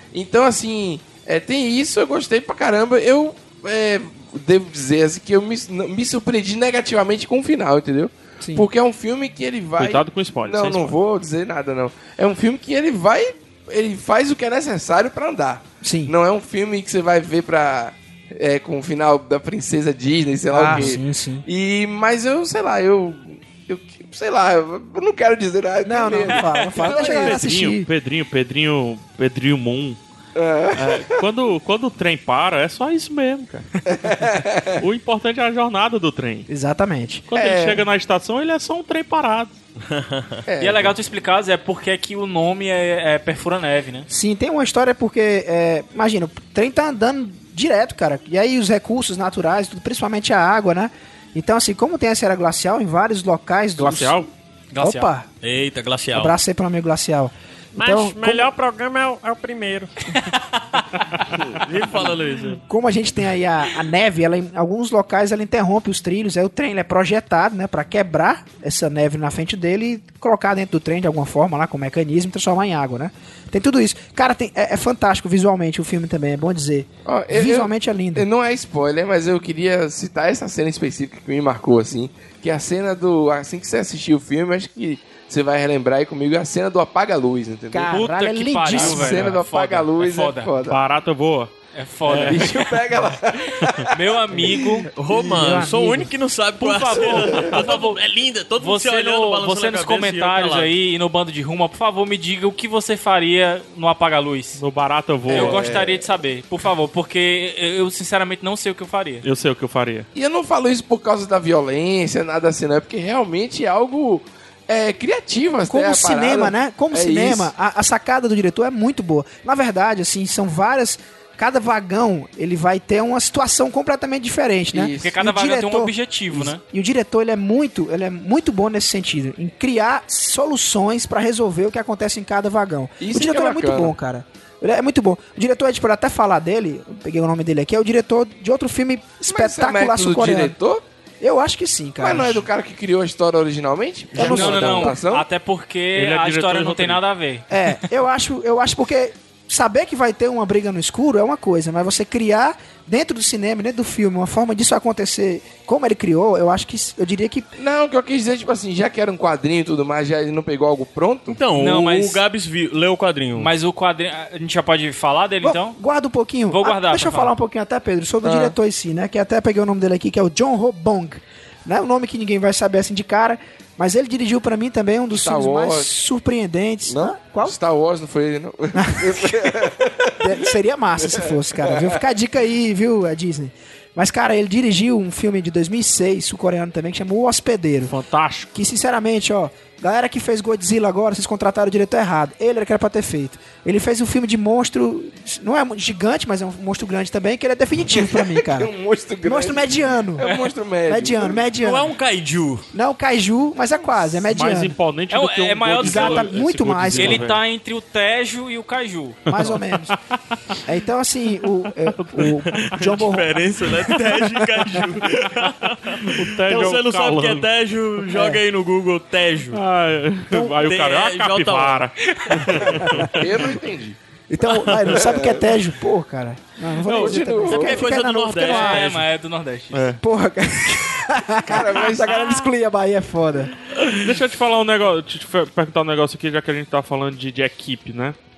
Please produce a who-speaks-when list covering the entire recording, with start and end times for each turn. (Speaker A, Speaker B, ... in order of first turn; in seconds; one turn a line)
Speaker A: 0.1-27.4
Speaker B: 8.4-8.7
Speaker C: 9.8-11.0
Speaker B: 15.8-16.1
Speaker B: 20.5-21.4
Speaker B: 25.8-27.9
Speaker C: 26.8-30.0
Speaker A: 30.3-31.1
Speaker C: 30.7-33.7
Speaker A: 33.9-34.8
Speaker C: 34.8-36.5
Speaker B: 36.5-37.3
Speaker C: 37.3-39.5
Speaker A: 37.3-37.8
Speaker D: 39.8-40.4
Speaker A: 40.5-40.9
Speaker E: 40.6-44.1
Speaker B: 44.1-54.2
Speaker C: 53.8-54.3
Speaker E: 54.7-55.1
Speaker B: 54.8-55.3
Speaker D: 55.4-56.3
Speaker B: 56.1-58.5
Speaker D: 57.8-62.6
Speaker B: 62.6-78.3
Speaker A: 77.0-87.9
Speaker B: 87.7-89.2
Speaker E: 87.9-90.5
Speaker A: 88.7-90.8
Speaker C: 90.6-91.5
Speaker E: 91.7-92.5
Speaker C: 92.0-92.8
Speaker A: 92.3-94.5
Speaker C: 93.6-93.8
Speaker E: 93.9-94.9
Speaker D: 94.9-100.7
Speaker B: 95.1-96.1
Speaker E: 96.6-98.0
Speaker E: 98.6-104.6
Speaker C: 104.5-105.8
Speaker A: 105.3-106.1
Speaker E: 105.3-109.2
Speaker C: 109.2-110.1
Speaker A: 110.1-117.5
Speaker B: 115.7-140.6
Speaker A: 124.7-125.1
Speaker E: 125.0-126.6
Speaker A: 133.0-133.9
Speaker A: 139.3-140.8
Speaker B: 141.2-142.5
Speaker A: 142.0-145.2
Speaker B: 144.1-145.0
Speaker E: 144.2-147.8
Speaker C: 145.9-147.0
Speaker B: 147.5-157.5
Speaker A: 157.6-161.4
Speaker D: 161.3-163.5
Speaker E: 161.5-162.2
Speaker E: 163.3-165.8
Speaker B: 165.4-177.6
Speaker E: 166.5-167.3
Speaker A: 168.2-168.5
Speaker A: 175.1-175.9
Speaker A: 176.9-180.3
Speaker B: 178.7-179.5
Speaker B: 180.2-187.9
Speaker A: 181.0-182.0
Speaker C: 187.8-188.5
Speaker B: 188.5-198.7
Speaker A: 197.9-201.5
Speaker B: 199.2-200.3
Speaker B: 200.9-201.9
Speaker D: 201.6-202.7
Speaker B: 202.7-204.8
Speaker C: 204.3-207.4
Speaker E: 205.1-206.3
Speaker B: 205.8-207.3
Speaker E: 206.9-209.3
Speaker B: 209.3-209.9
Speaker C: 209.3-209.9
Speaker B: 210.6-214.3
Speaker C: 211.8-213.1
Speaker D: 212.6-219.6
Speaker C: 214.6-217.5
Speaker B: 218.1-218.4
Speaker C: 219.5-223.3
Speaker D: 220.6-221.9
Speaker A: 223.0-224.0
Speaker B: 224.3-228.9
Speaker A: 224.9-225.5
Speaker A: 226.8-227.9
Speaker C: 226.9-227.3
Speaker D: 227.5-229.0
Speaker E: 228.4-229.9
Speaker C: 229.7-230.0
Speaker B: 230.0-233.5
Speaker A: 231.4-232.4
Speaker C: 233.8-238.2